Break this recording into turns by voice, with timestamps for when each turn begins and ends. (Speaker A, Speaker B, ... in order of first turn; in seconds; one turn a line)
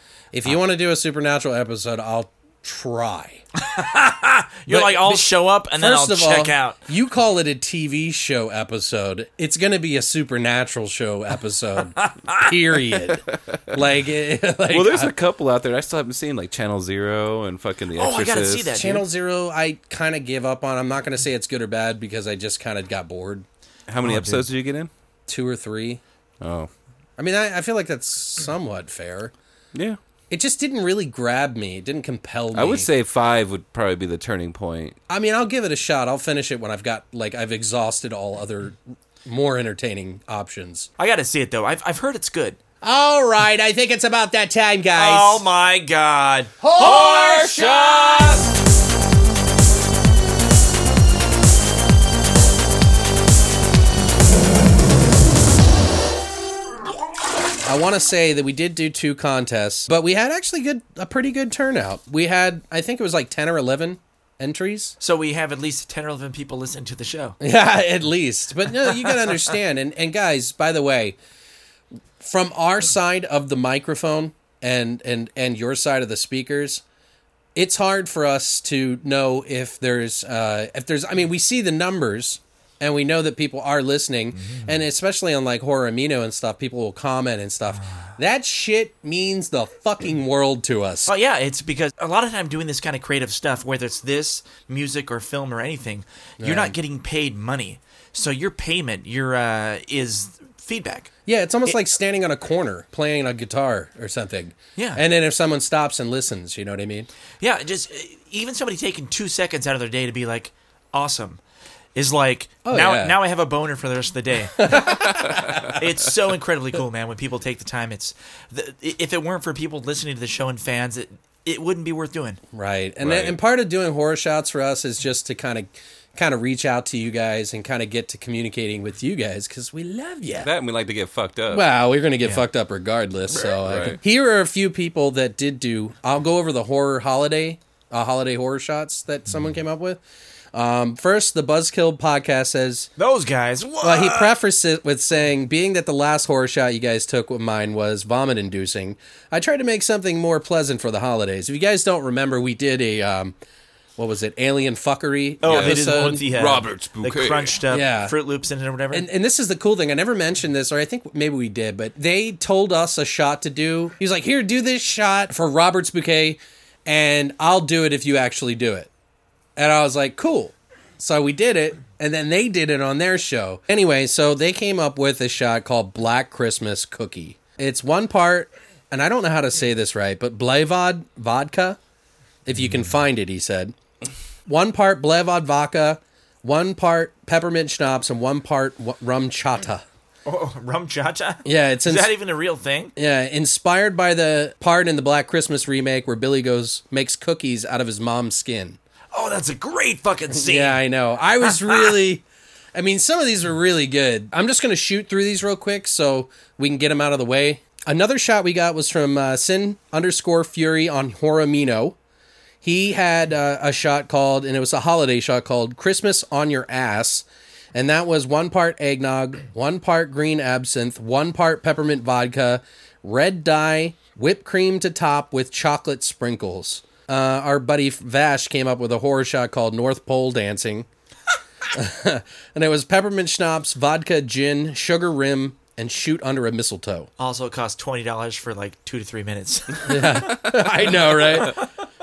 Speaker A: 0.3-3.4
Speaker B: 3.6-6.8
Speaker A: 4.7-15.1
Speaker B: 12.0-12.4
Speaker C: 14.7-18.8
Speaker B: 17.9-19.0
Speaker A: 18.7-23.4
Speaker C: 23.9-24.9
Speaker B: 24.0-24.4
Speaker A: 25.3-26.0
Speaker C: 26.4-26.7
Speaker A: 27.2-29.3
Speaker A: 30.3-32.9
Speaker C: 32.5-35.0
Speaker A: 35.1-40.9
Speaker B: 41.0-42.6
Speaker A: 42.8-45.4
Speaker B: 44.9-48.3
Speaker A: 46.6-48.4
Speaker C: 46.8-48.3
Speaker A: 57.6-65.0
Speaker B: 65.0-67.4
Speaker A: 67.4-71.2
Speaker A: 72.2-76.8
Speaker A: 77.5-91.1
Speaker B: 84.4-84.7
Speaker B: 91.1-101.1
Speaker A: 96.4-96.7
Speaker A: 101.2-107.1
Speaker B: 104.8-105.0
Speaker B: 107.4-111.4
Speaker B: 111.9-115.0
Speaker A: 112.6-113.2
Speaker A: 114.6-115.8
Speaker B: 115.7-122.4
Speaker A: 122.5-130.5
Speaker C: 123.0-123.3
Speaker C: 130.4-131.6
Speaker A: 131.5-140.0
Speaker C: 133.5-134.0
Speaker A: 140.5-142.9
Speaker B: 143.0-144.3
Speaker A: 143.8-153.3
Speaker A: 154.0-156.2
Speaker B: 155.4-159.1
Speaker C: 155.4-157.6
Speaker A: 157.7-158.1
Speaker A: 158.9-168.9
Speaker A: 169.6-181.8
Speaker A: 182.4-183.7
Speaker A: 184.4-189.8
Speaker B: 190.2-192.9
Speaker A: 191.4-192.1
Speaker A: 192.9-198.8
Speaker B: 199.1-200.8
Speaker A: 200.3-202.2
Speaker A: 202.7-212.0
Speaker A: 212.6-230.9
Speaker A: 231.7-237.1
Speaker B: 237.2-241.6
Speaker A: 239.8-241.6